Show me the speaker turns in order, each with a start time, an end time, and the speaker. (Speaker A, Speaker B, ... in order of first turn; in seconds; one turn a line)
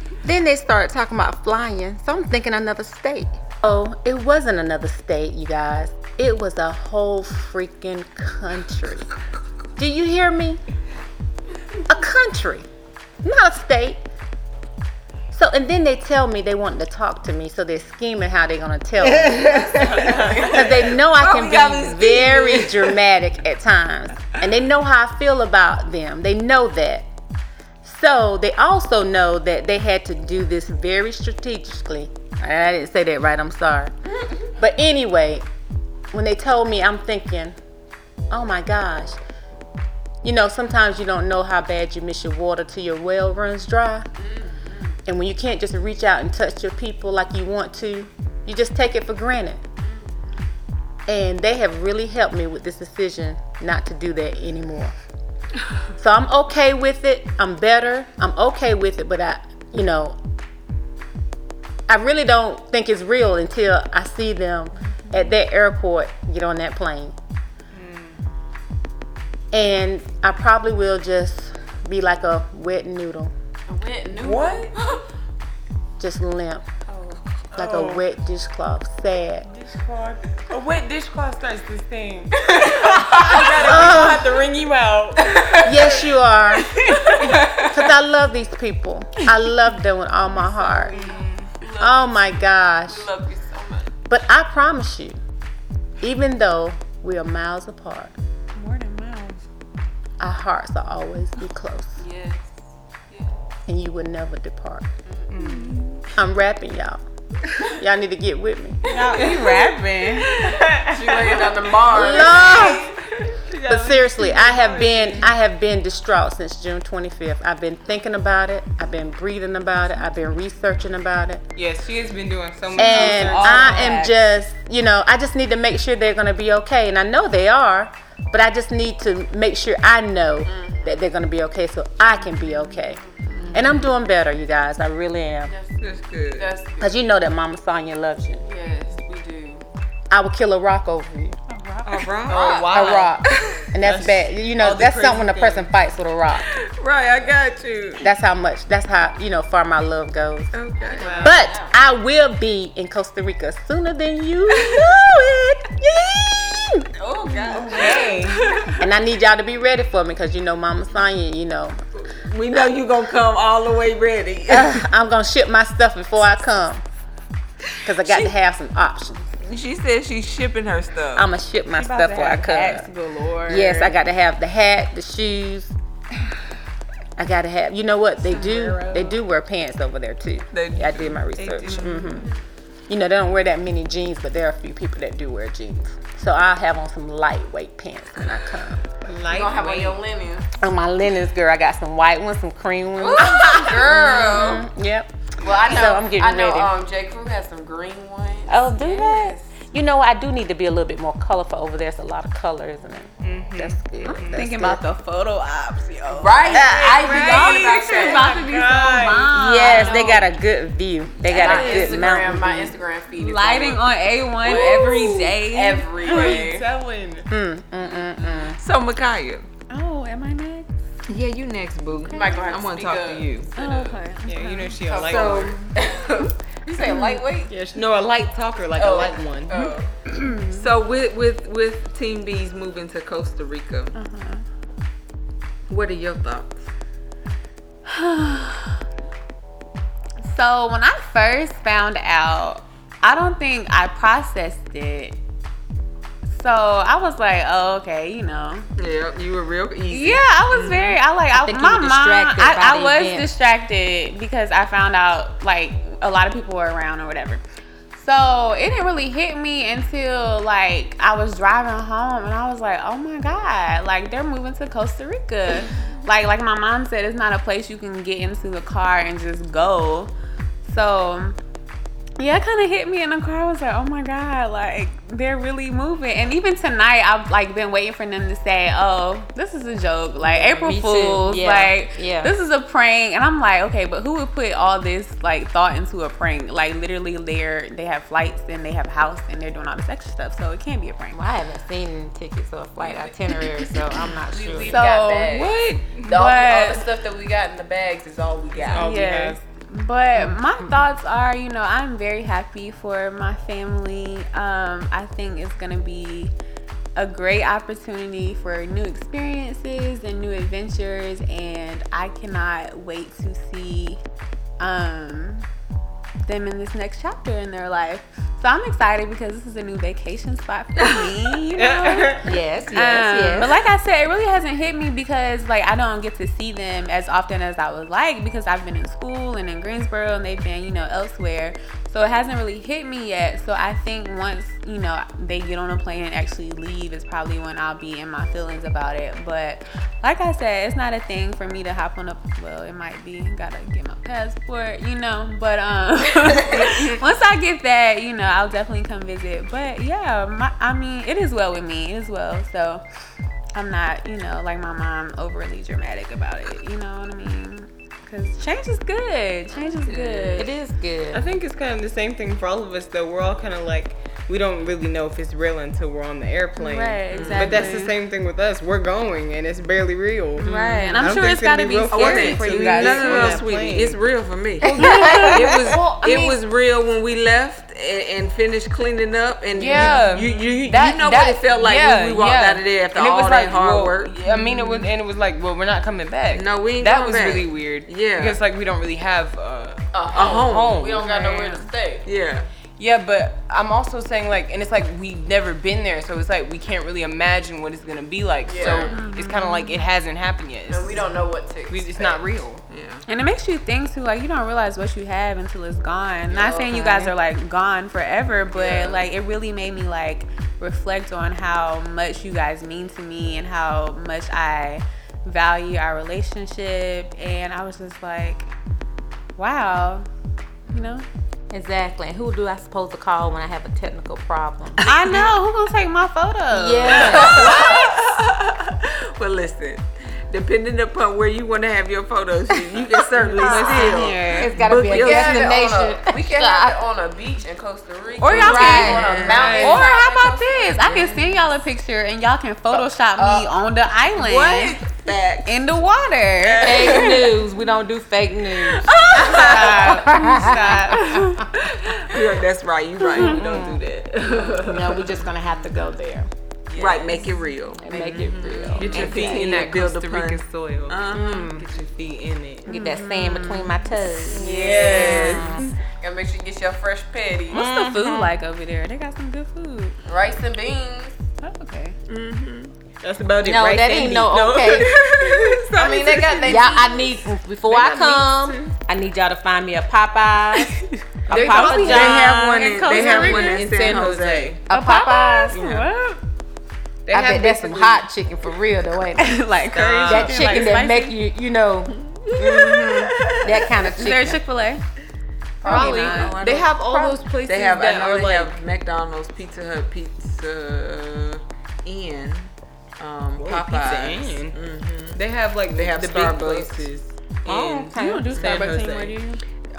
Speaker A: 0.2-9.1
Speaker A: 9.8-10.6
Speaker A: 11.8-12.7
Speaker A: 13.2-14.0
Speaker A: 15.3-27.1
Speaker B: 19.0-22.9
Speaker C: 19.5-20.5
Speaker D: 19.9-20.4
Speaker A: 27.8-33.9
Speaker A: 34.5-35.5
Speaker A: 36.1-37.6
Speaker A: 38.3-39.2
Speaker A: 40.2-44.1
Speaker C: 44.2-45.0
Speaker A: 45.0-49.6
Speaker C: 49.8-50.4
Speaker A: 51.1-54.9
Speaker A: 56.0-60.2
Speaker A: 61.9-67.1
Speaker D: 67.7-68.2
Speaker A: 69.5-73.3
Speaker C: 73.7-75.0
Speaker D: 74.1-74.7
Speaker A: 76.0-76.6
Speaker C: 76.9-77.2
Speaker D: 77.5-78.0
Speaker A: 77.5-79.5
Speaker D: 79.5-85.4
Speaker C: 82.5-84.2
Speaker A: 83.6-84.3
Speaker C: 85.2-86.0
Speaker A: 85.6-90.9
Speaker D: 86.7-87.1
Speaker C: 86.8-87.8
Speaker C: 90.3-94.0
Speaker D: 90.9-91.6
Speaker A: 91.8-93.1
Speaker A: 94.1-95.2
Speaker A: 96.0-98.2
Speaker E: 98.5-99.4
Speaker A: 100.2-102.0
Speaker C: 102.0-102.5
Speaker C: 103.1-103.3
Speaker A: 103.7-104.9
Speaker C: 105.0-105.4
Speaker D: 105.3-106.0
Speaker E: 105.4-105.9
Speaker A: 106.1-107.0
Speaker A: 107.7-109.5
Speaker E: 108.9-110.2
Speaker C: 108.9-109.3
Speaker D: 109.2-109.5
Speaker D: 110.1-111.5
Speaker C: 110.9-112.9
Speaker A: 111.9-112.9
Speaker D: 112.0-115.3
Speaker A: 113.6-121.4
Speaker D: 121.5-124.1
Speaker A: 122.8-133.0
Speaker E: 122.8-124.1
Speaker C: 130.4-131.0
Speaker C: 132.9-133.7
Speaker A: 133.5-135.5
Speaker C: 135.4-135.8
Speaker B: 135.8-136.6
Speaker C: 136.3-137.0
Speaker A: 136.8-138.4
Speaker C: 138.4-139.6
Speaker A: 140.1-141.4
Speaker E: 141.5-142.1
Speaker B: 141.8-142.7
Speaker D: 142.3-145.7
Speaker C: 142.3-142.7
Speaker A: 142.7-146.5
Speaker B: 146.5-148.1
Speaker A: 148.0-150.5
Speaker B: 150.5-151.2
Speaker C: 150.8-151.8
Speaker D: 151.0-151.5
Speaker A: 151.2-156.9
Speaker C: 157.0-158.3
Speaker A: 157.5-161.8
Speaker D: 157.8-158.1
Speaker B: 162.1-164.8
Speaker A: 164.5-166.8
Speaker A: 167.8-169.2
Speaker B: 167.8-168.3
Speaker B: 169.4-171.3
Speaker A: 171.1-172.8
Speaker E: 171.8-173.9
Speaker A: 173.5-175.7
Speaker A: 177.2-182.3
Speaker B: 178.3-178.9
Speaker B: 180.5-182.1
Speaker D: 181.4-182.2
Speaker A: 182.9-188.9
Speaker D: 189.0-190.0
Speaker C: 189.2-190.5
Speaker A: 190.6-196.7
Speaker C: 193.0-194.7
Speaker C: 195.4-198.8
Speaker A: 198.5-204.8
Speaker D: 203.2-204.5
Speaker E: 204.0-210.2
Speaker C: 206.1-208.5
Speaker D: 206.5-209.4
Speaker A: 206.5-206.9
Speaker A: 209.3-212.8
Speaker C: 209.6-210.3
Speaker C: 211.2-213.8
Speaker E: 211.3-212.1
Speaker E: 213.2-216.4
Speaker C: 214.4-216.7
Speaker D: 214.4-215.3
Speaker D: 216.0-217.2
Speaker A: 217.3-218.6
Speaker C: 218.2-218.5
Speaker B: 218.6-219.5
Speaker E: 219.7-220.7
Speaker B: 221.1-223.5
Speaker E: 222.1-222.4
Speaker C: 222.1-223.3
Speaker E: 223.6-225.4
Speaker D: 223.6-225.6
Speaker C: 224.8-227.5
Speaker E: 226.8-227.1
Speaker D: 227.5-229.7
Speaker C: 228.7-229.9
Speaker E: 230.2-230.7
Speaker B: 230.5-233.9
Speaker E: 233.9-234.4
Speaker B: 235.7-236.7
Speaker E: 237.9-238.8
Speaker E: 240.2-245.1
Speaker E: 246.3-248.7
Speaker B: 248.8-251.0
Speaker E: 249.9-257.4
Speaker A: 251.3-253.3
Speaker E: 257.9-270.1
Speaker E: 270.6-271.4
Speaker E: 272.2-291.2
Speaker A: 280.2-282.3
Speaker A: 291.1-294.8
Speaker C: 292.8-299.0
Speaker E: 294.7-295.4
Speaker D: 295.3-296.1
Speaker E: 296.0-296.8
Speaker E: 298.6-306.3
Speaker D: 298.7-299.4
Speaker A: 300.2-300.8
Speaker E: 306.9-314.0
Speaker E: 314.6-315.5
Speaker E: 316.2-352.8
Speaker B: 320.8-321.0
Speaker D: 321.5-322.2
Speaker A: 322.2-323.5
Speaker E: 353.5-360.5
Speaker B: 359.8-360.5
Speaker A: 360.4-361.3
Speaker D: 361.1-374.0
Speaker E: 366.6-367.9
Speaker B: 367.1-367.6
Speaker E: 370.4-373.4
Speaker B: 370.5-371.3
Speaker B: 371.9-384.2
Speaker E: 374.6-376.3
Speaker A: 374.7-375.4
Speaker E: 379.6-380.3
Speaker D: 379.6-391.1
Speaker E: 384.4-384.8
Speaker B: 386.3-388.4
Speaker C: 389.9-392.1
Speaker B: 390.1-391.0
Speaker E: 391.0-391.7
Speaker B: 392.0-392.5
Speaker D: 392.8-401.2
Speaker C: 398.4-399.0
Speaker E: 398.6-399.9
Speaker C: 400.7-402.2
Speaker D: 401.7-402.6
Speaker B: 402.7-403.0
Speaker E: 403.1-418.5
Speaker C: 406.3-406.9
Speaker D: 406.8-407.0
Speaker C: 408.5-409.1
Speaker E: 419.4-420.1
Speaker E: 420.7-421.1
Speaker A: 421.5-424.8
Speaker B: 424.8-425.2
Speaker E: 424.8-427.5
Speaker A: 426.5-427.9
Speaker B: 426.9-435.5
Speaker C: 427.1-427.8
Speaker E: 433.4-434.5
Speaker D: 433.4-434.5
Speaker A: 433.4-436.8
Speaker C: 434.9-440.8
Speaker E: 438.2-444.8
Speaker B: 438.3-439.6
Speaker D: 438.3-439.9
Speaker B: 440.8-441.5
Speaker C: 443.2-443.5
Speaker B: 444.2-445.5
Speaker E: 445.4-447.1
Speaker B: 446.4-447.4
Speaker A: 446.6-451.4
Speaker B: 448.8-450.0
Speaker D: 449.1-451.3
Speaker B: 451.9-455.1
Speaker D: 453.1-454.9
Speaker A: 453.3-453.6
Speaker A: 454.6-456.3
Speaker C: 456.7-457.3
Speaker B: 456.8-461.6
Speaker A: 457.8-459.7
Speaker D: 458.1-462.7
Speaker C: 458.4-459.4
Speaker A: 461.1-461.6
Speaker E: 462.6-463.9
Speaker A: 462.7-464.5
Speaker D: 464.3-465.7
Speaker C: 464.3-465.4
Speaker B: 464.4-465.4
Speaker A: 465.1-465.7
Speaker C: 466.0-467.6
Speaker E: 467.5-469.9
Speaker D: 467.5-468.4
Speaker C: 470.0-471.2
Speaker E: 471.4-471.9
Speaker D: 472.1-475.6
Speaker A: 473.4-474.9
Speaker E: 473.8-474.1
Speaker B: 474.6-476.6
Speaker C: 475.7-477.3
Speaker A: 476.4-483.1
Speaker D: 477.7-478.7
Speaker E: 481.3-484.1
Speaker D: 481.3-484.6
Speaker B: 481.5-484.6
Speaker A: 484.7-485.5
Speaker E: 484.7-486.2
Speaker B: 485.5-485.9
Speaker D: 485.5-485.8
Speaker D: 487.1-488.0
Speaker A: 487.1-489.4
Speaker E: 489.2-491.1
Speaker D: 489.7-490.7
Speaker B: 489.8-490.2
Speaker A: 490.1-494.4
Speaker B: 492.3-493.6
Speaker E: 493.8-494.8
Speaker D: 495.6-498.5
Speaker A: 495.6-497.2
Speaker E: 495.6-496.3
Speaker B: 495.6-505.2
Speaker D: 503.4-504.5
Speaker D: 505.1-509.2
Speaker B: 505.7-506.9
Speaker A: 507.4-508.3
Speaker E: 508.0-509.4
Speaker B: 508.4-508.7